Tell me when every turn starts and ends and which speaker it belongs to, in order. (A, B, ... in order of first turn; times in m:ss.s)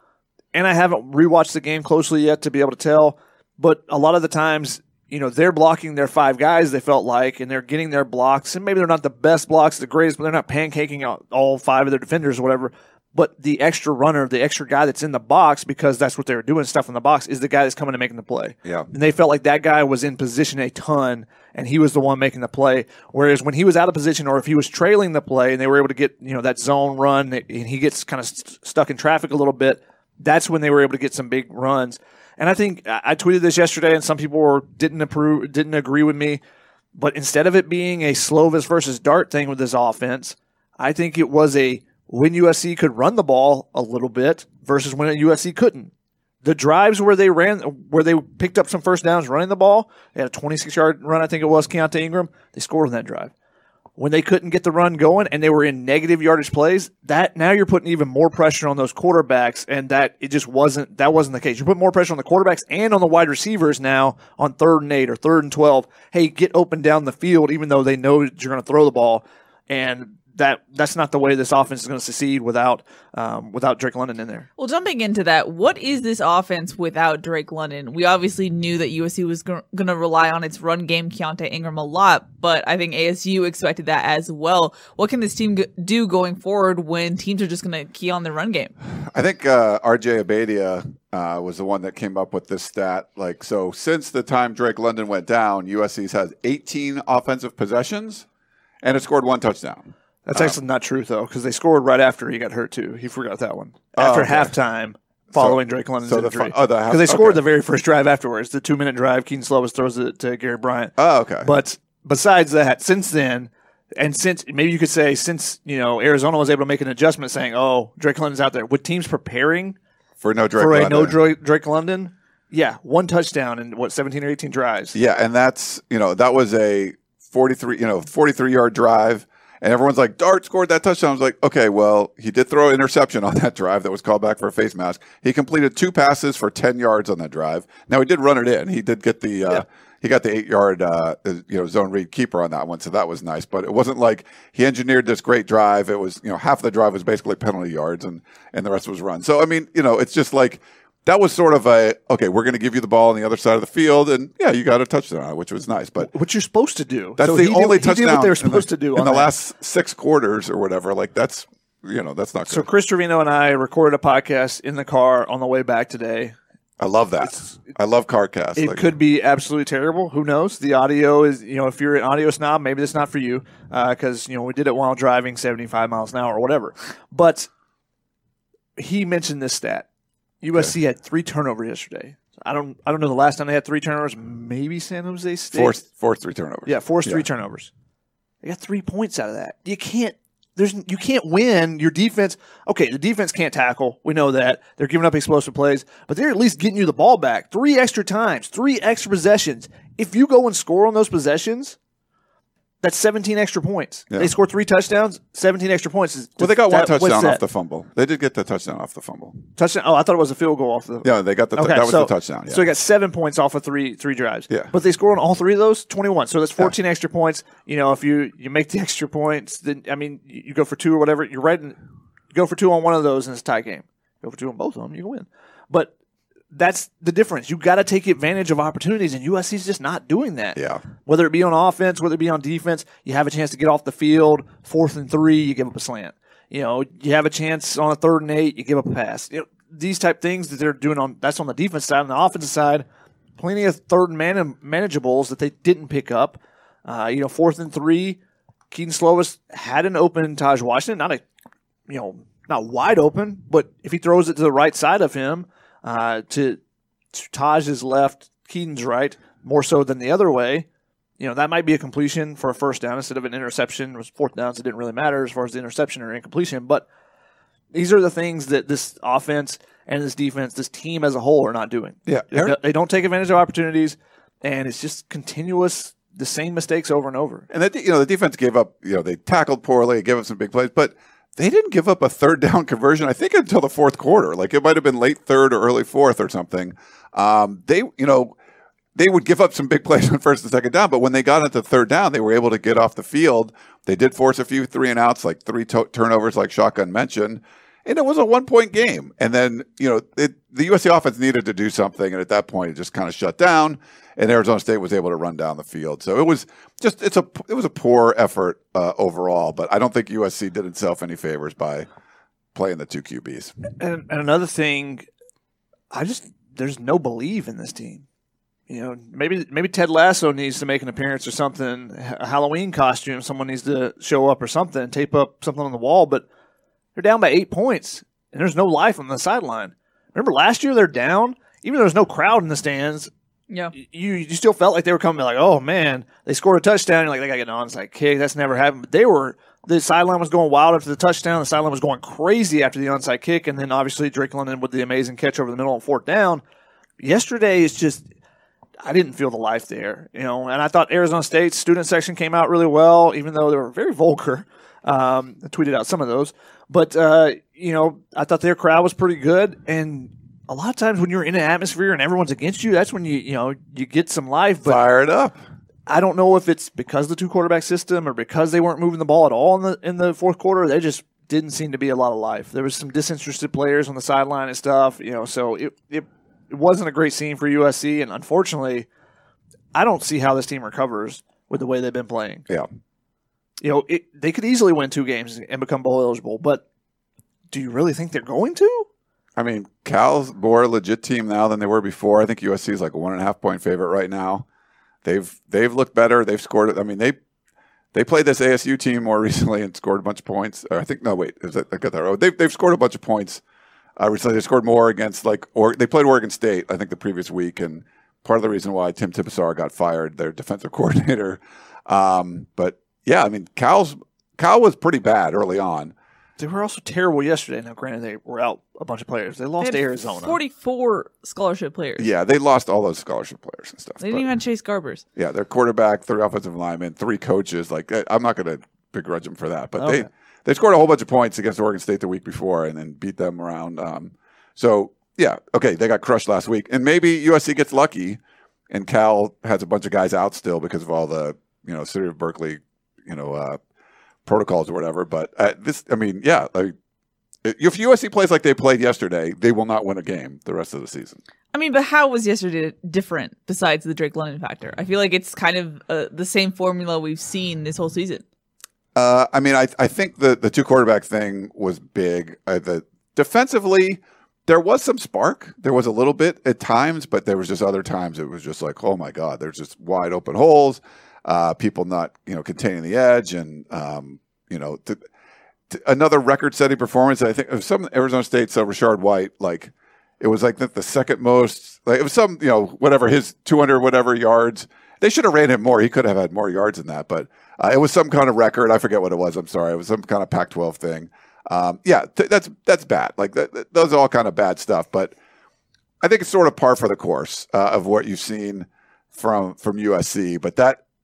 0:00.5-0:36.4 A
0:37.0-0:45.9 A
0:46.4-0:53.3 A
0:54.0-1:14.5 A
1:14.6-1:28.7 B
1:29.1-1:38.3 C
1:38.8-1:40.6 C
1:40.3-1:50.9 A
1:44.0-1:44.5 C
1:45.3-1:47.4 C
1:51.0-1:51.5 C
1:51.4-1:59.8 A
2:00.2-2:01.2 C
2:00.6-2:05.0 A
2:04.9-2:36.1 C
2:36.0-2:39.3 A
2:37.2-2:42.7 C
2:42.5-2:46.4 A
2:46.8-2:48.9 C
2:47.2-2:47.6 A
2:48.6-2:57.5 A
2:58.8-2:59.9 A
3:00.4-3:05.8 A
3:05.5-3:07.3 C
3:06.7-3:07.7 A
3:08.4-3:21.8 A
3:22.8-3:27.4 A
3:26.4-3:29.4 C
3:29.6-3:41.8 A
3:31.0-3:32.6 C
3:42.3-3:45.9 A
3:46.5-4:02.8 A
3:50.6-3:50.8 C
4:03.4-4:08.2 A
4:08.7-4:11.2 A
4:11.9-4:16.6 A
4:17.1-4:20.7 A
4:21.2-4:26.8 A
4:27.7-4:37.5 A
4:32.1-4:32.6 C
4:37.5-4:48.4 C
4:49.0-5:11.9 C
5:12.6-5:13.5 C
5:13.8-5:15.1 A
5:15.9-5:18.0 A
5:18.7-5:26.2 A
5:27.0-5:33.1 A
5:33.8-5:46.4 A
5:47.0-5:48.1 A
5:48.8-6:04.8 A
6:04.6-6:05.4 C
6:05.9-6:18.9 A
6:19.7-6:22.4 A
6:23.6-6:26.6 A
6:27.5-6:28.9 A
6:29.4-6:34.5 C
6:35.0-6:37.2 C
6:37.9-6:43.4 C
6:44.0-6:55.9 C
6:56.4-7:00.4 A
6:59.6-7:02.1 B
7:02.0-7:04.3 C
7:04.0-7:05.0 B
7:05.2-7:23.6 C
7:09.8-7:10.1 A
7:24.3-7:26.8 C
7:27.4-7:31.2 C
7:31.5-7:38.2 B
7:39.0-7:55.0 C
7:55.7-8:15.1 C
8:16.0-8:20.8 C